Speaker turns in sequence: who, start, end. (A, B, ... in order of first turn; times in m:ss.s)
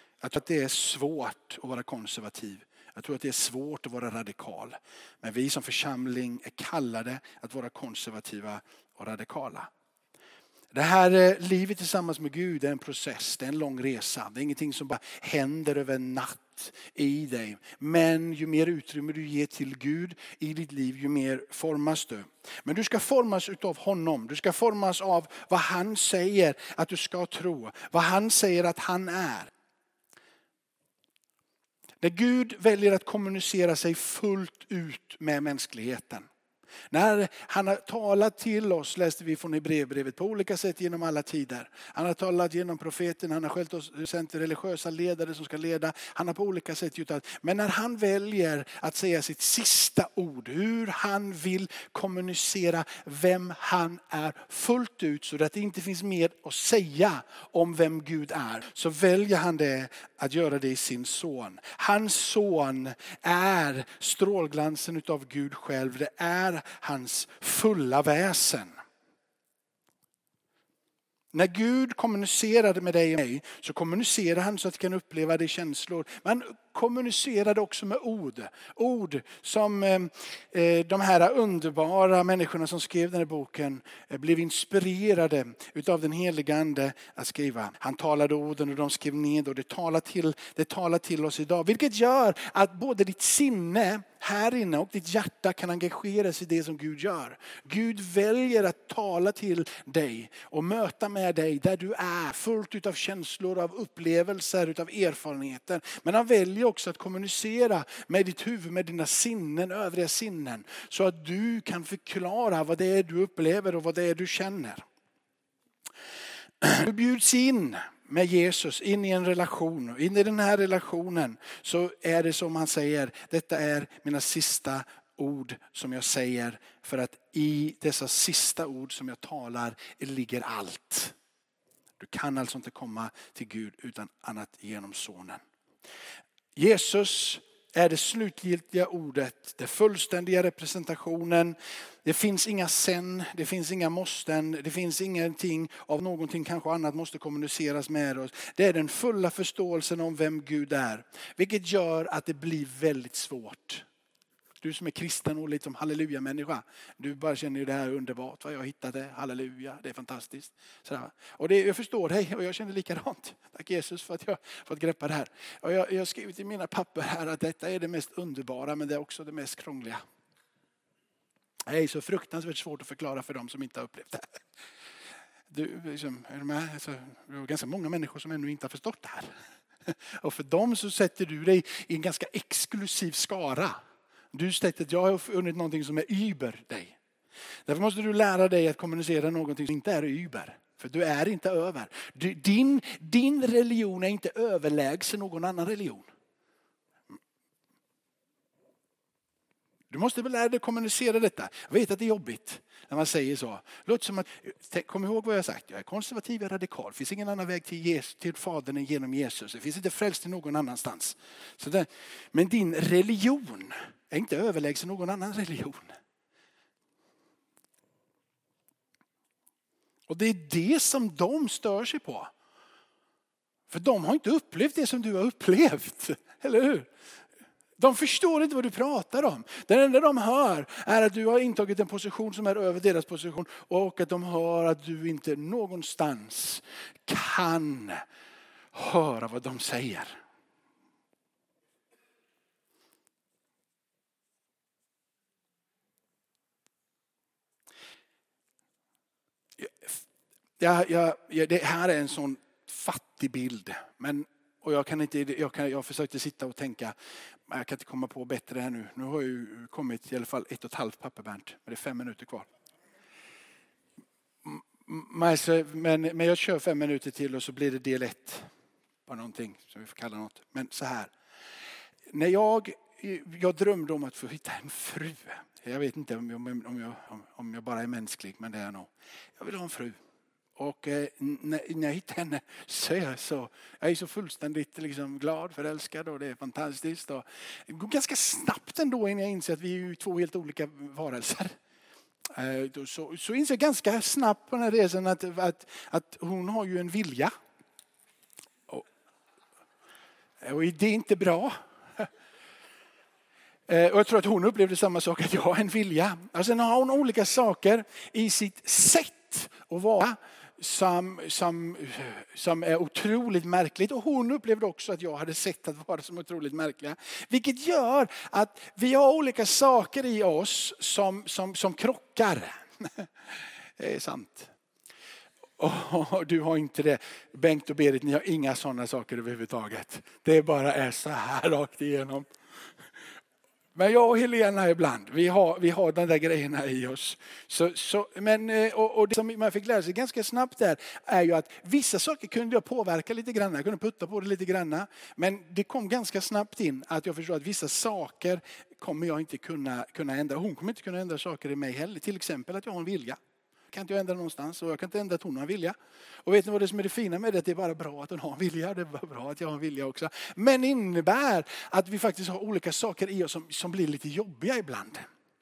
0:00.2-0:09.7 A
0:10.7-0:29.5 A
0:32.0-0:36.3 A
0:36.9-1:08.8 A
1:11.3-1:54.8 A
1:56.6-2:11.2 A
2:12.0-2:15.4 A
2:16.6-2:33.9 A
2:34.6-2:50.0 A
2:51.7-2:54.4 A
2:55.5-2:59.3 A
2:59.9-3:03.8 A
3:04.3-3:07.0 A
3:07.7-3:16.1 A
3:19.9-3:35.9 A
3:40.1-3:42.3 A
3:43.7-3:46.9 A
3:47.8-3:58.0 A
3:58.7-4:00.2 A
4:09.6-4:10.0 A
4:10.6-4:17.0 A
4:17.5-4:22.5 A
4:24.4-4:28.5 A
4:29.1-4:31.1 A
4:32.1-4:40.0 A
4:40.6-4:51.6 A
4:52.3-4:57.3 A
5:00.4-5:02.1 A
5:03.7-5:23.1 A
5:23.8-5:24.5 A
5:25.6-5:32.3 A
5:33.8-5:53.2 A
5:53.7-6:05.1 A